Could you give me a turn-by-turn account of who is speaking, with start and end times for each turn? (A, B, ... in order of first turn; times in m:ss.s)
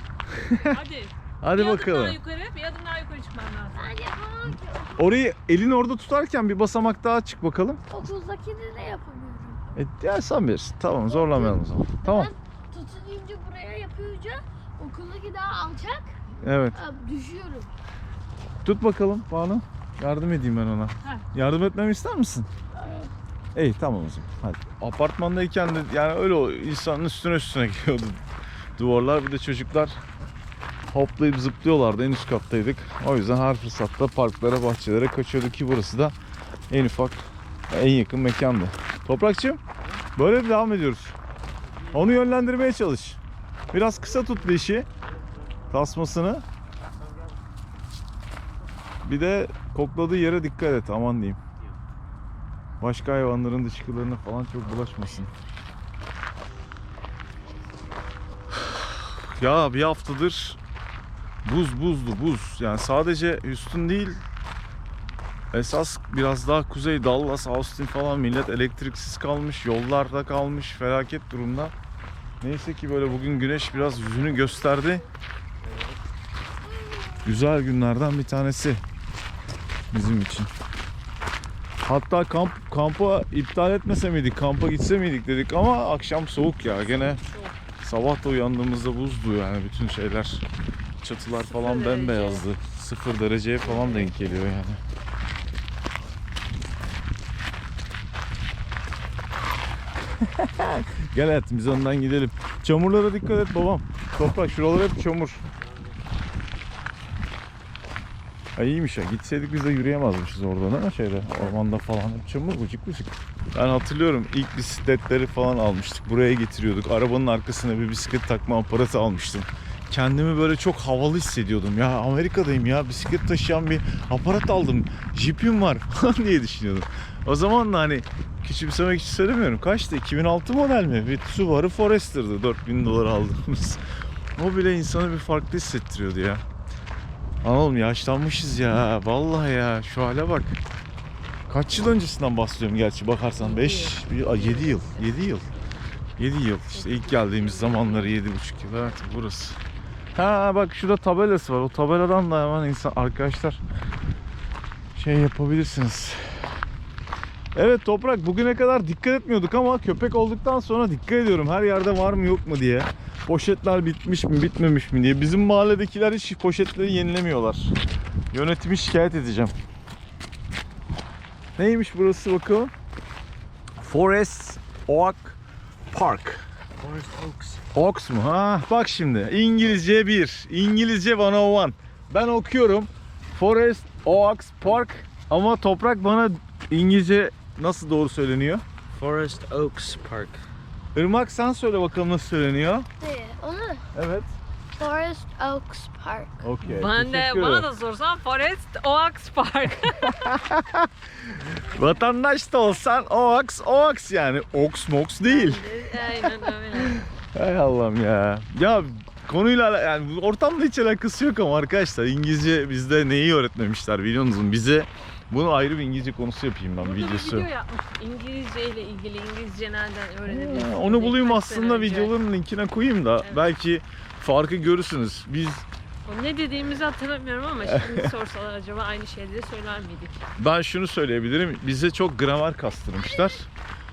0:00.3-0:00.8 A
0:00.6-0:03.9 B
0:01.4-0:02.2 A
0:03.7-0:05.1 C
0:05.0-0:07.8 A
0:07.9-0:09.6 C
0:09.7-0:12.3 A
0:11.1-0:16.1 C
0:16.4-0:16.8 A
0:16.7-0:17.7 C
0:18.6-0:22.5 A
0:22.8-0:23.1 C
0:23.5-0:28.2 A
0:28.8-0:30.0 A
0:30.9-0:36.1 A
0:36.7-0:39.6 A
0:40.2-0:41.2 A
0:41.9-0:43.2 A
0:43.7-0:44.9 A
0:45.7-0:46.4 A
0:49.0-0:51.4 A
0:52.8-0:55.3 A
0:58.6-1:00.6 A
1:01.4-1:04.2 A
1:05.5-1:11.7 A
1:12.4-1:15.1 A
1:17.2-1:18.8 A
1:19.9-1:20.5 A
1:21.8-1:27.2 A
1:26.6-1:27.6 B
1:27.8-1:30.4 A
1:31.0-1:34.8 A
1:31.3-1:32.5 B
1:40.2-1:45.4 A
1:48.6-2:13.8 A
2:14.4-2:16.4 A
2:17.4-2:20.6 A
2:21.5-2:25.5 A
2:23.4-2:25.0 B
2:26.2-2:29.6 A
2:26.8-2:28.2 B
2:30.1-2:33.6 A
2:34.9-2:36.2 A
2:37.5-2:47.7 A
2:48.3-2:49.5 A
2:51.6-2:52.7 A
2:53.8-2:55.4 A
2:55.9-2:56.4 A
2:56.8-2:57.6 D
2:57.7-3:08.6 A
3:09.0-3:10.4 D
3:10.9-3:12.9 A
3:13.0-3:13.8 C
3:13.9-3:14.3 A
3:14.8-3:16.4 C
3:16.4-3:17.7 A
3:16.6-3:20.3 B
3:20.1-3:26.1 A
3:25.2-3:27.0 B
3:26.7-3:37.5 A
3:36.8-3:42.1 B
3:40.2-3:45.6 A
3:46.0-3:50.2 B
3:47.6-3:48.1 A
3:50.4-3:53.5 A